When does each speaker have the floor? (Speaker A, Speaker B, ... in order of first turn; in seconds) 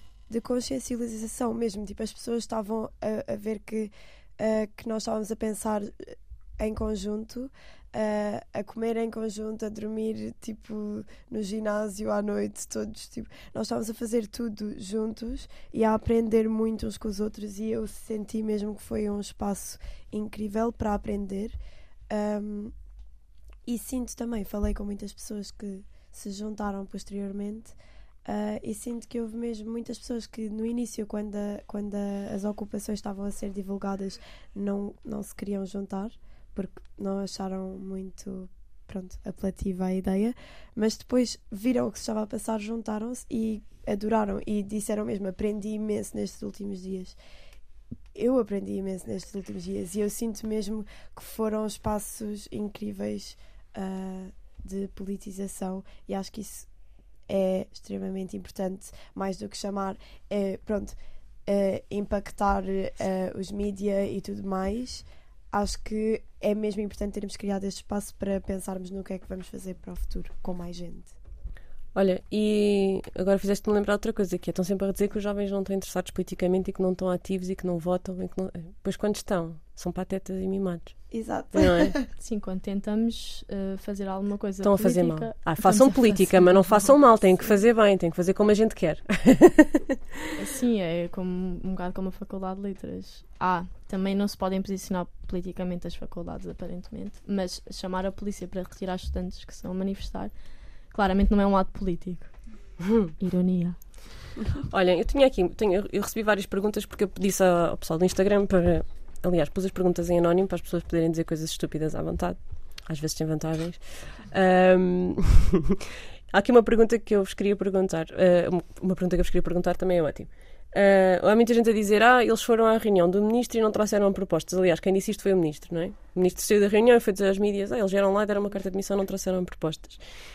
Speaker A: 0.3-21.6, 22.1-22.7, 23.7-47.2, 48.1-56.7, 57.3-71.1, 81.1-82.0
Speaker B: 72.0-82.0, 84.6-90.0, 102.9-103.1, 104.7-115.8, 116.3-130.0
Speaker C: 82.2-87.0, 90.4-100.3, 100.9-102.4, 103.2-103.8